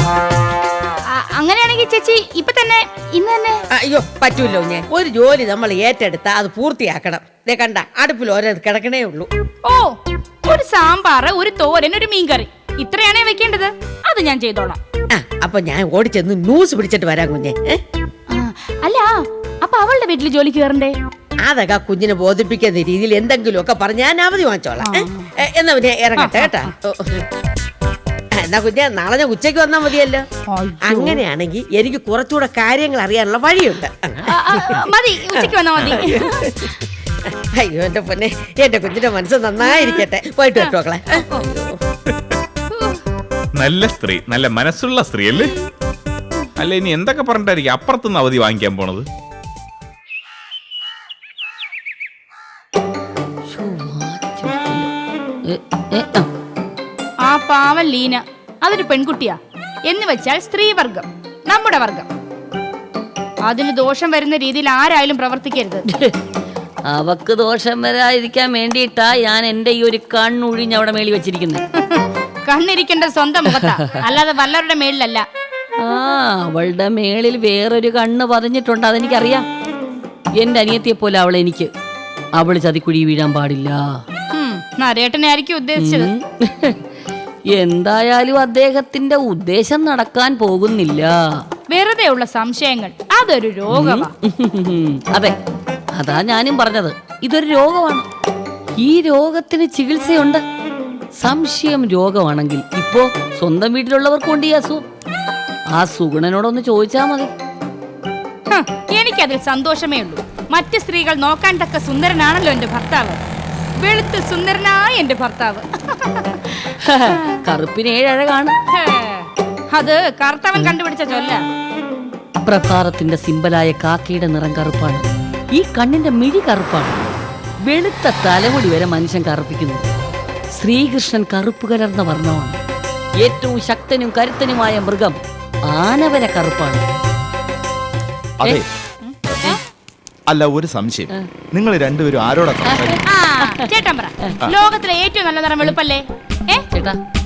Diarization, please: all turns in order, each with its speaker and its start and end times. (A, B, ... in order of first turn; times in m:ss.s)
0:01.1-0:03.6 A
0:03.8-0:09.3 B
0:09.7-0:14.8 A
0:15.1-0:17.8 B
0:18.3-0:20.9 A
0:21.4-0:27.2 B
0:24.8-0:25.3 A
0:26.2-0:26.7 A
0:28.4-0:30.3 B
0:30.5-0:31.2 A
0:30.8-0:34.9 B
0:34.3-0:36.5 A
0:35.4-0:36.8 B
0:37.5-0:41.8 B
0:39.6-0:40.0 A
0:40.6-0:41.4 A
0:42.7-0:43.0 A
0:43.6-0:45.5 C
0:46.6-0:49.0 C
0:53.5-0:54.9 D
0:55.5-0:56.3 D
0:57.3-1:02.1 A
1:03.5-1:05.8 A
1:06.9-1:11.6 D
1:11.9-1:15.2 A
1:13.5-1:13.8 D
1:15.8-1:19.4 D
1:20.4-1:21.7 D
1:22.4-1:24.0 D
1:24.3-1:26.1 A
1:25.8-1:26.8 D
1:27.6-1:31.2 D
1:31.7-1:34.1 A
1:33.7-1:35.4 D
1:36.0-1:38.0 D
1:38.8-1:40.4 D
1:41.2-1:44.8 D
1:45.8-1:47.3 D
1:48.5-1:53.2 A
1:53.8-1:56.7 A
1:56.8-1:58.6 D
1:58.7-2:01.4 A
2:02.4-2:07.0 D
2:07.7-2:09.8 D
2:10.6-2:12.6 D
2:13.2-2:15.2 D
2:15.7-2:16.8 D
2:18.4-2:18.7 E
2:19.1-2:19.6 A
2:20.3-2:23.0 E
2:22.7-2:23.6 D
2:23.1-2:26.6 A